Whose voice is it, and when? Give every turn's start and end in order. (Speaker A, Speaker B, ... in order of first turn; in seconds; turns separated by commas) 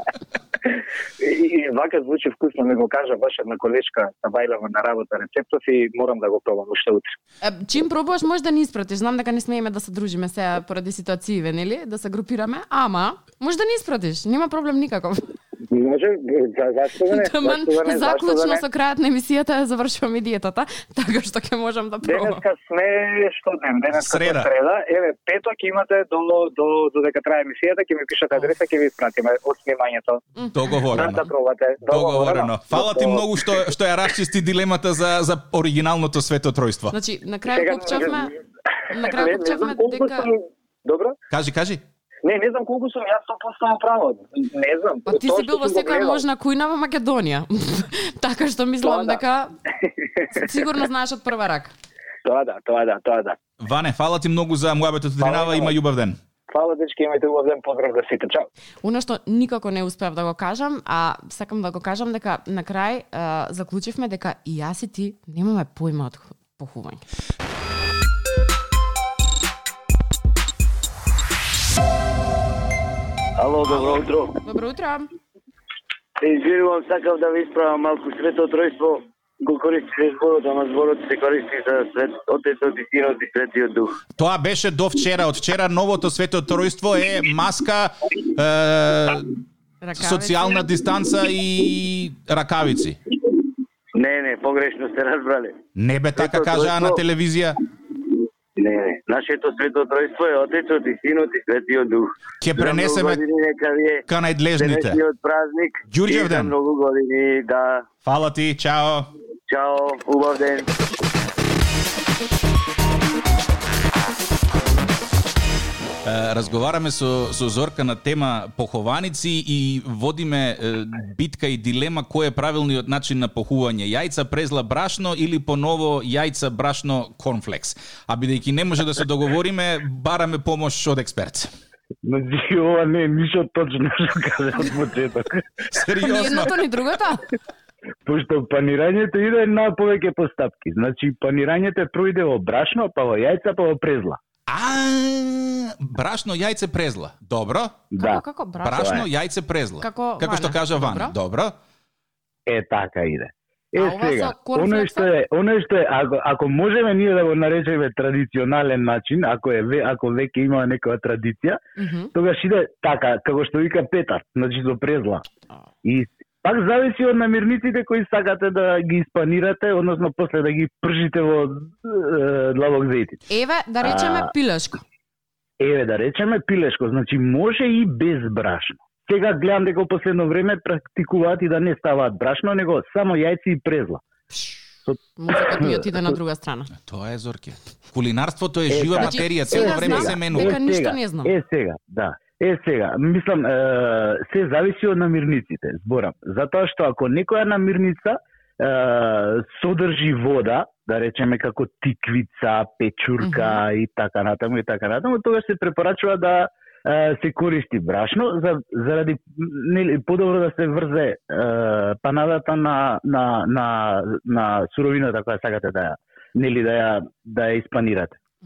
Speaker A: 0.6-7.1, Speaker B: 7.4-15.2, Speaker A: 15.7-18.6, Speaker B: 17.1-22.4, Speaker A: 22.0-30.2, Speaker C: 23.9-24.5, Speaker C: 30.5-31.3, Speaker A: 30.9-33.4, Speaker C: 31.8-36.9, Speaker B: 36.9-38.3, Speaker A: 37.5-38.3, Speaker B: 38.9-40.3, Speaker A: 38.9-41.1, Speaker C: 41.3-41.8, Speaker A: 42.2-46.2, Speaker B: 45.1-49.5, Speaker A: 48.8-49.2, Speaker B: 50.3-51.7, Speaker A: 52.2-53.4, Speaker C: 53.6-56.2, Speaker A: 55.2-55.8, Speaker A: 56.5-58.5, Speaker B: 58.8-67.0, Speaker D: 73.4-74.3, Speaker B: 74.4-75.1, Speaker D: 76.2-84.0, Speaker C: 84.2-89.3, Speaker B: 89.8-90.6, Speaker C: 90.0-93.0, Speaker D: 93.9-95.6, Speaker C: 95.8-97.6, Speaker D: 96.2-97.0, Speaker D: 98.6-104.0, Speaker C: 102.4-103.2, Speaker C: 104.1-105.0, Speaker D: 104.6-107.8, Speaker C: 105.9-106.5, Speaker C: 108.0-109.1, Speaker D: 109.5-110.7, Speaker C: 116.0-131.5, Speaker E: 132.0-135.4, Speaker C: 135.7-136.5, Speaker B: 136.0-137.3, Speaker E: 138.0-144.2, Speaker C: 144.5-147.8, Speaker E: 147.9-148.2, Speaker B: 147.9-149.0, Speaker C: 148.6-151.5, Speaker E: 148.8-149.1, Speaker B: 149.8-151.2, Speaker E: 152.5-161.6, Speaker B: 153.8-155.1, Speaker B: 161.8-162.1, Speaker E: 162.1-165.2, Speaker E: 165.8-173.2, Speaker B: 173.3-174.8, Speaker E: 173.8-174.3, Speaker E: 175.6-184.0, Speaker B: 184.3-184.6, Speaker B: 185.2-186.7, Speaker E: 185.5-186.0, Speaker C: 186.8-190.6, Speaker E: 188.7-218.2, Speaker B: 189.0-191.3, Speaker B: 203.2-203.6